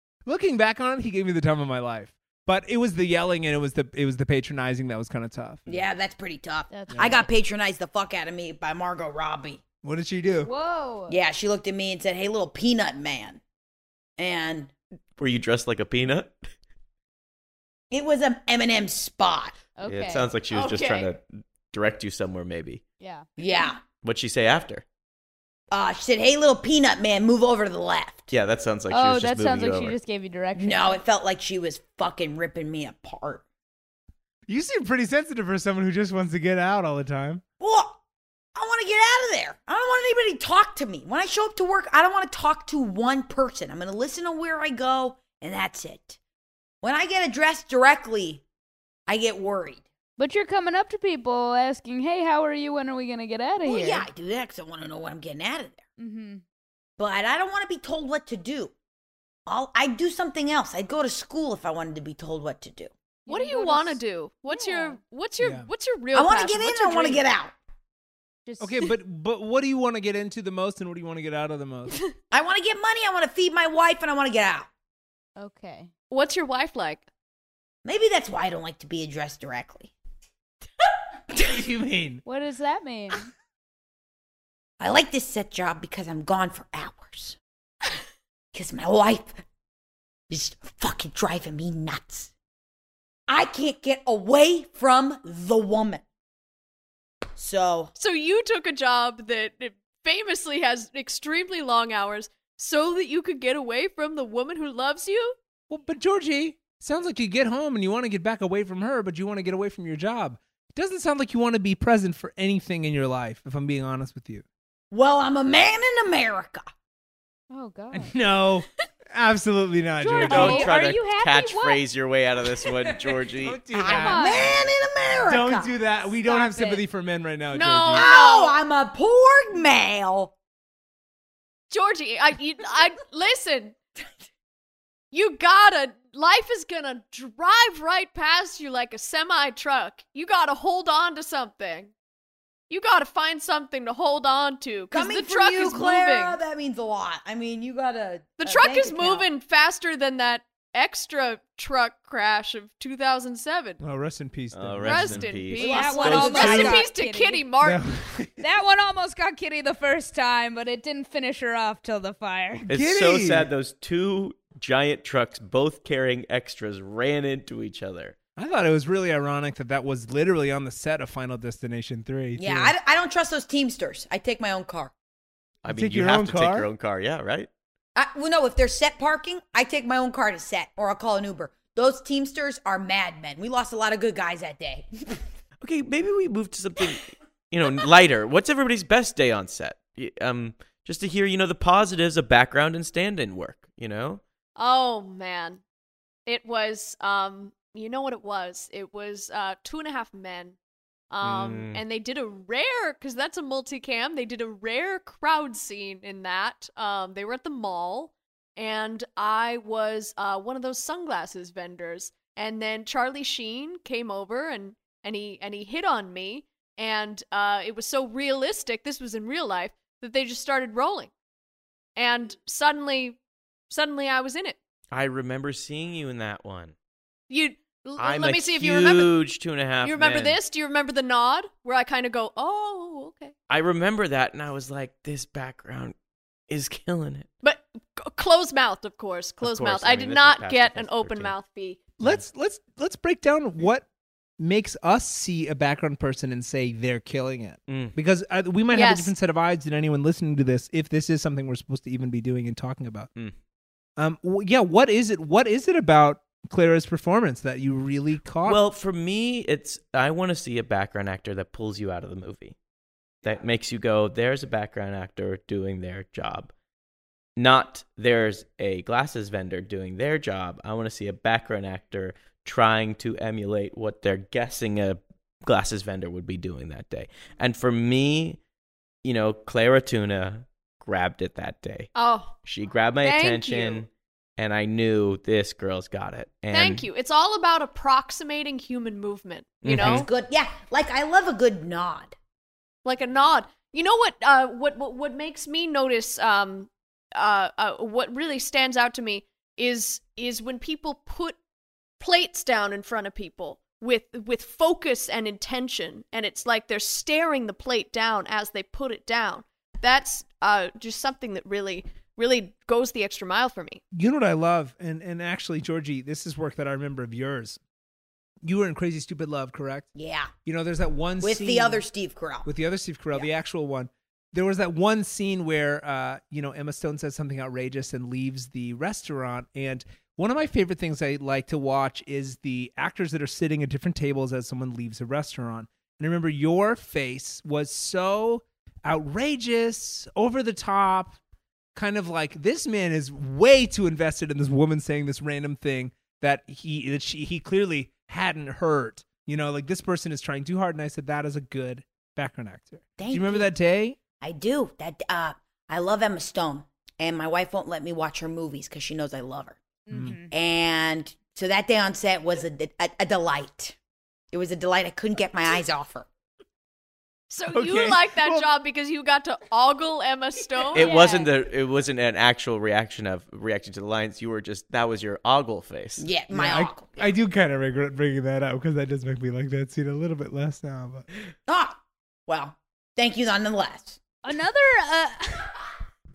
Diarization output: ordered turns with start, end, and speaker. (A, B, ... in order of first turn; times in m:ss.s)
0:00.3-0:05.6 A
0:05.7-0:09.6 B
0:06.7-0:07.2 C
0:06.9-0:07.2 A
0:09.8-0:10.5 A
0:10.4-0:11.2 C
0:11.1-0:13.4 B
0:14.2-0:14.7 B
0:15.2-0:16.4 D
0:17.9-0:19.6 B
0:19.8-0:20.3 C
0:19.9-0:22.8 D
0:20.5-0:21.1 E
0:23.0-0:23.3 C
0:23.4-0:23.8 B
0:24.0-0:24.8 D
0:25.7-0:28.3 B
0:28.3-0:30.0 D
0:28.9-0:31.0 C
0:30.6-0:33.4 B
0:34.5-0:37.4 A
0:37.6-0:38.0 B
0:38.6-0:46.2 B
0:46.8-0:48.4 B
0:49.1-0:49.8 B
0:50.2-0:54.1 C
0:53.6-0:55.8 B
0:56.0-0:56.4 C
0:57.0-0:58.7 B
0:59.5-1:02.9 B
1:03.3-1:05.0 C
1:03.3-1:07.2 E
1:05.4-1:05.7 A
1:06.1-1:07.5 B
1:08.5-1:08.9 C
1:08.6-1:12.0 A
1:12.3-1:14.7 B
1:15.4-1:15.9 C
1:16.1-1:17.1 E
1:17.8-1:19.9 B
1:21.3-1:22.2 A
1:22.2-1:23.3 C
1:24.8-1:27.4 B
1:28.5-1:29.4 B
1:30.3-1:32.3 B
1:33.3-1:36.0 B
1:37.4-1:37.9 B
1:38.0-1:45.4 E
1:45.7-1:54.4 A
1:54.9-1:56.7 B
1:57.5-1:58.1 C
1:57.9-2:00.7 A
2:00.0-2:01.8 C
2:00.2-2:03.6 D
2:03.3-2:08.1 A
2:03.7-2:05.7 B
2:03.9-2:04.6 C
2:06.2-2:06.8 C
2:07.5-2:08.6 E
2:07.9-2:10.3 B
2:11.7-2:13.8 E
2:15.1-2:21.9 E
2:22.7-2:26.4 E
2:24.9-2:29.3 B
2:28.4-2:33.8 E
2:33.8-2:35.3 A
2:34.5-2:36.7 D
2:34.8-2:37.8 E
2:35.6-2:36.8 B
2:35.6-2:37.5 C
2:36.4-2:36.7 A
2:37.6-2:38.4 A
2:38.4-2:42.7 C
2:42.7-2:43.5 A
2:42.7-2:48.2 D
2:48.4-2:52.7 A
2:52.4-2:54.9 B
2:55.6-2:57.5 D
2:55.7-2:56.7 A
2:58.0-3:05.2 B
3:05.6-3:14.2 D
3:14.6-3:15.6 E
3:16.3-3:20.6 E
3:21.1-3:41.1 E
3:21.2-3:21.8 D
3:42.0-3:44.6 E
3:44.9-3:46.8 D
3:47.3-3:49.2 E
3:48.0-3:50.4 D
3:49.8-3:53.3 E
3:53.5-3:56.0 D
3:56.5-3:57.3 D
3:57.4-4:01.8 E
3:59.4-4:01.4 D
4:02.0-4:03.9 A
4:04.4-4:13.1 A
4:07.7-4:08.0 D
4:08.7-4:09.1 E
4:14.0-4:18.6 A
4:18.4-4:22.6 D
4:23.2-4:26.5 D
4:27.4-4:38.4 D
4:39.0-4:41.9 D
4:42.0-4:42.4 E
4:42.4-4:46.9 D
4:43.0-4:43.8 E
4:46.5-4:50.1 E
4:49.6-4:50.1 D
4:49.8-4:52.2 B
4:52.8-5:01.4 E
5:02.0-5:13.8 E
5:13.9-5:17.6 A
5:18.4-5:19.9 A
5:20.0-5:20.3 B
5:20.5-5:21.9 A
5:21.2-5:22.5 B
5:22.4-5:41.2 A
5:41.8-5:54.0 A
5:53.0-5:53.5 B
5:54.2-5:59.6 B
5:59.9-6:00.3 C
5:59.9-6:00.2 A
6:00.3-6:03.8 B
6:04.3-6:06.1 B
6:07.3-6:11.0 E
6:07.5-6:08.5 A
6:10.7-6:11.3 C
6:10.7-6:16.1 D
6:16.0-6:17.1 B
6:16.3-6:21.1 A
6:21.5-6:24.0 B
6:24.2-6:25.5 C